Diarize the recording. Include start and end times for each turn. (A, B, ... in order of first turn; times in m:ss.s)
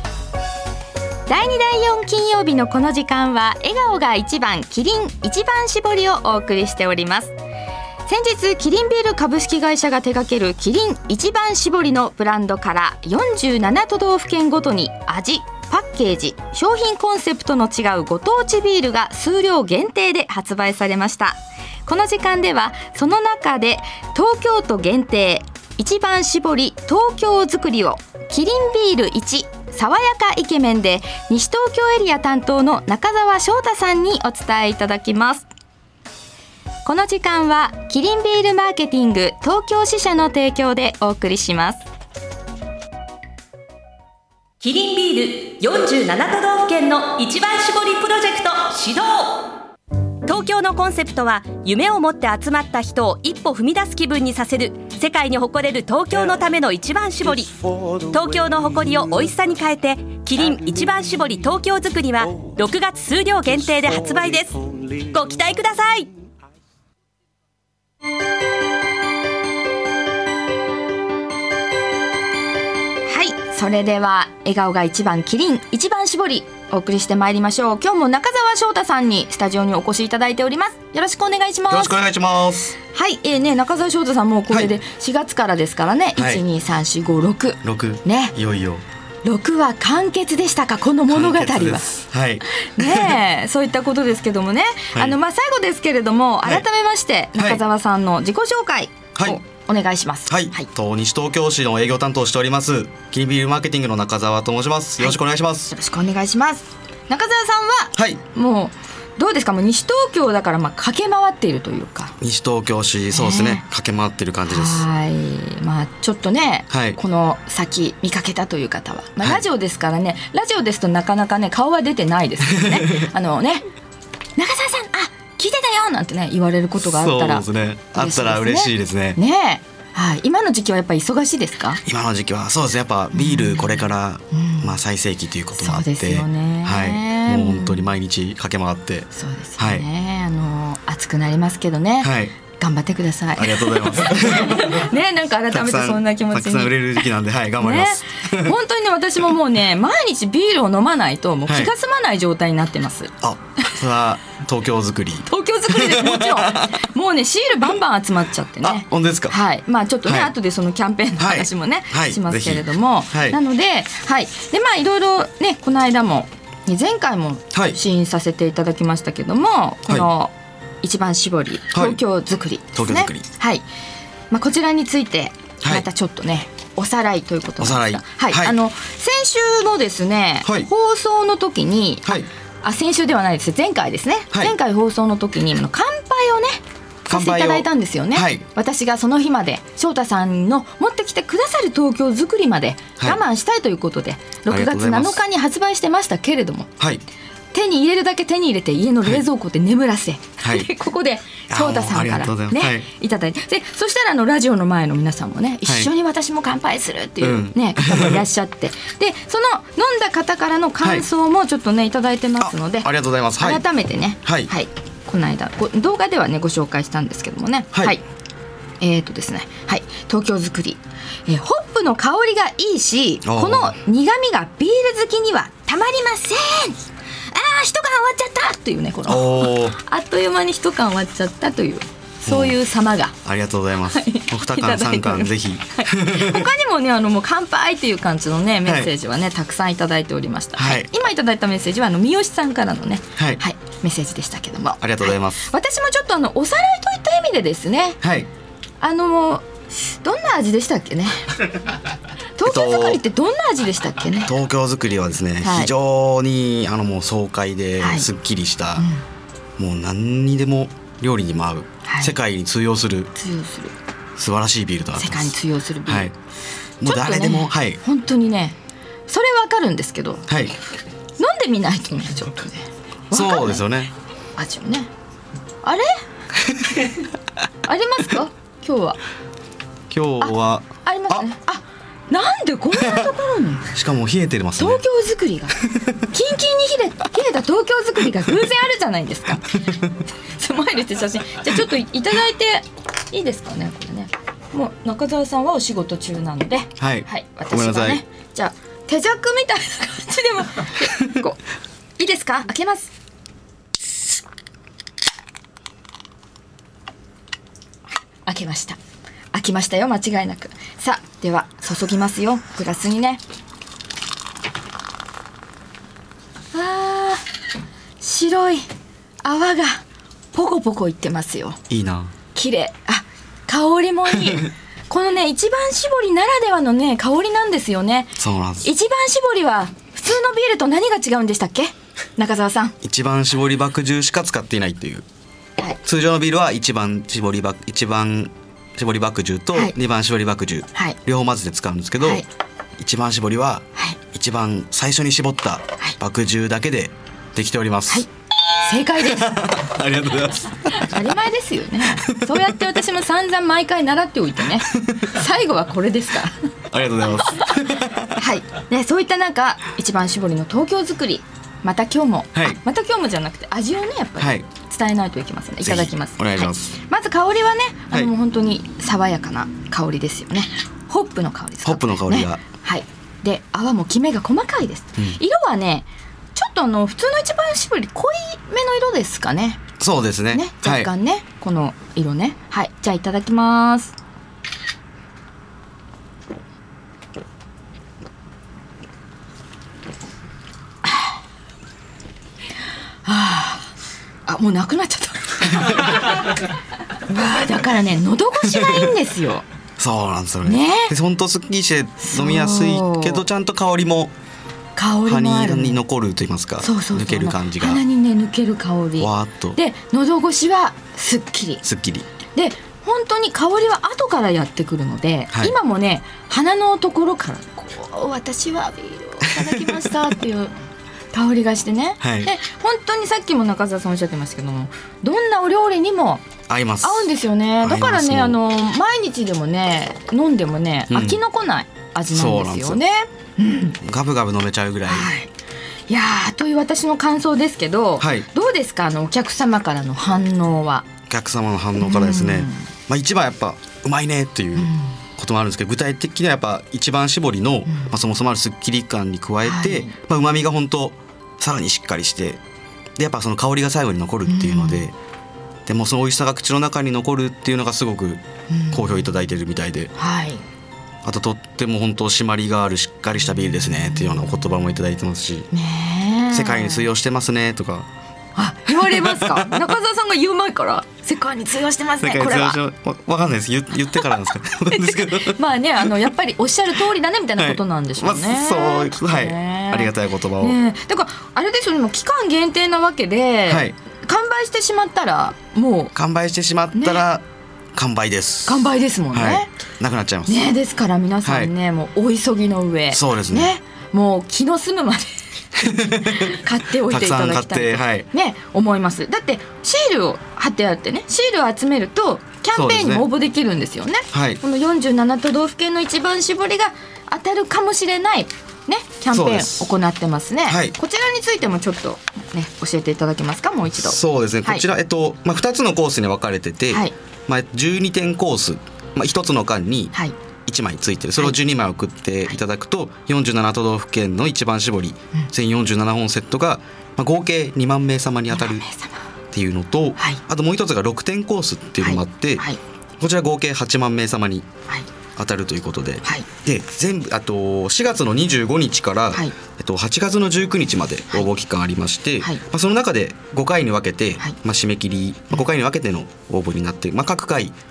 0:01.3-0:07.3 A
0:08.0-0:35.4 A
0:36.8-0:41.8 A
0:44.6-0:49.4 B
0:50.3-1:06.1 B
1:13.1-1:22.0 A
1:21.7-1:22.8 C
1:22.9-1:28.4 A
1:26.2-1:26.4 C
1:27.6-1:28.8 C
1:29.2-1:40.7 A
1:31.1-1:33.2 C
1:39.2-1:39.4 C
1:40.3-1:45.7 C
1:45.7-1:52.2 A
1:48.0-1:48.2 C
1:52.2-1:54.8 C
1:53.1-1:53.6 A
1:54.4-2:03.7 A
1:56.7-1:57.0 C
2:02.6-2:03.1 C
2:04.4-2:11.8 A
2:07.0-2:09.2 C
2:11.9-2:19.8 C
2:13.1-2:14.8 A
2:15.6-2:17.9 A
2:19.1-2:27.1 A
2:22.0-2:22.3 C
2:23.4-2:24.9 C
2:25.5-2:28.6 C
2:27.6-2:33.1 A
2:31.5-2:31.7 C
2:33.2-2:36.8 C
2:35.2-2:53.7 A
2:38.6-2:39.4 C
2:40.0-2:40.3 C
2:41.2-2:43.4 C
2:51.7-2:52.0 C
2:52.7-2:53.3 C
2:54.3-3:16.7 A
2:57.6-2:58.6 C
3:07.1-3:08.4 C
3:14.5-3:15.2 C
3:16.8-3:17.0 C
3:17.5-3:38.0 A
3:20.4-3:20.7 C
3:21.5-3:22.9 C
3:25.7-3:25.9 C
3:27.2-3:28.2 C
3:32.4-3:33.6 C
3:34.2-3:34.5 C
3:38.8-3:53.2 A
3:43.2-3:43.8 C
3:49.1-3:49.8 C
3:52.2-3:52.6 C
3:53.2-3:56.5 C
3:53.8-4:08.0 A
3:58.7-3:58.9 C
4:00.6-4:00.9 C
4:04.8-4:05.4 C
4:08.0-4:08.3 C
4:08.8-4:11.4 A
4:12.4-4:14.3 A
4:12.4-4:13.0 C
4:14.3-4:18.9 C
4:15.4-4:15.7 A
4:17.8-4:18.1 A
4:18.8-4:19.0 A
4:19.6-4:23.1 C
4:21.8-4:22.2 A
4:23.1-4:23.7 A
4:24.2-4:26.1 C
4:24.9-4:26.1 A
4:26.8-4:27.8 C
4:26.8-4:28.6 A
4:29.1-4:30.3 A
4:30.3-4:30.5 C
4:31.2-4:33.6 A
4:33.1-4:33.9 C
4:34.4-4:34.9 A
4:35.6-4:35.9 A
4:37.6-4:39.0 A
4:39.9-4:41.2 C
4:40.2-4:43.7 A
4:43.7-4:44.8 C
4:44.6-5:01.4 A
4:56.8-4:58.0 C
5:02.0-5:02.9 A
5:08.2-5:08.8 A
5:09.3-5:13.2 A
5:16.5-5:17.2 A
5:18.0-5:18.6 A
5:19.2-5:21.6 A
5:21.7-5:22.1 C
5:22.3-5:32.8 A
5:28.2-5:28.7 C
5:32.8-5:35.0 C
5:35.8-5:42.2 C
5:42.0-5:42.2 A
5:42.8-5:48.0 C
5:48.6-5:49.6 A
5:49.0-5:51.0 C
5:50.7-5:56.3 A
5:52.0-5:52.4 C
5:54.8-5:55.1 C
5:56.7-5:58.2 C
5:57.2-5:57.5 A
5:58.1-6:19.6 A
6:04.2-6:04.4 C
6:05.6-6:06.7 C
6:11.6-6:12.4 C
6:19.8-6:20.9 C
6:20.3-6:23.9 A
6:33.0-6:33.7 A
6:34.2-6:36.2 A
6:37.1-6:39.4 A
6:38.5-6:38.9 C
6:39.8-6:44.1 C
6:40.4-6:40.9 A
6:42.0-6:43.3 A
6:44.8-6:45.8 A
6:45.1-6:47.8 C
6:46.6-6:51.6 A
6:49.0-6:49.6 C
6:51.6-6:52.1 C
6:52.3-7:00.5 A
6:59.2-6:59.9 C
7:01.1-7:06.3 A
7:02.0-7:02.3 C
7:06.5-7:07.1 C
7:06.8-7:13.8 A
7:07.6-7:08.4 C
7:10.9-7:11.2 C
7:12.1-7:12.8 C
7:13.8-7:15.1 C
7:14.9-7:15.3 A
7:15.9-7:20.9 A
7:18.0-7:18.3 C
7:21.1-7:32.4 C
7:21.8-7:22.7 A
7:24.6-7:25.0 A
7:27.7-7:27.9 A
7:29.4-7:29.9 A
7:33.0-7:34.9 C
7:34.2-7:34.9 A
7:35.6-7:39.9 C
7:38.5-7:39.0 A
7:39.9-7:40.4 A
7:41.0-7:45.5 C
7:45.5-7:46.9 A
7:46.3-7:47.9 C
7:48.4-7:52.6 A
7:48.7-7:49.6 C
7:52.0-7:56.0 C
7:54.7-8:05.9 A
7:57.4-8:00.6 C
8:03.5-8:03.8 C
8:05.9-8:10.5 C
8:06.7-8:07.0 A
8:08.4-8:09.5 A
8:10.3-8:34.7 A
8:11.2-8:11.5 C
8:12.9-8:13.5 C
8:15.6-8:18.1 C
8:22.5-8:23.1 C
8:24.1-8:24.4 C
8:29.1-8:29.7 C
8:30.5-8:30.8 C
8:33.7-8:39.9 C
8:40.5-8:48.6 C
8:48.3-8:49.0 A
8:49.3-8:52.4 C
8:51.8-8:52.6 A
8:53.0-8:54.5 C
8:55.2-9:07.6 C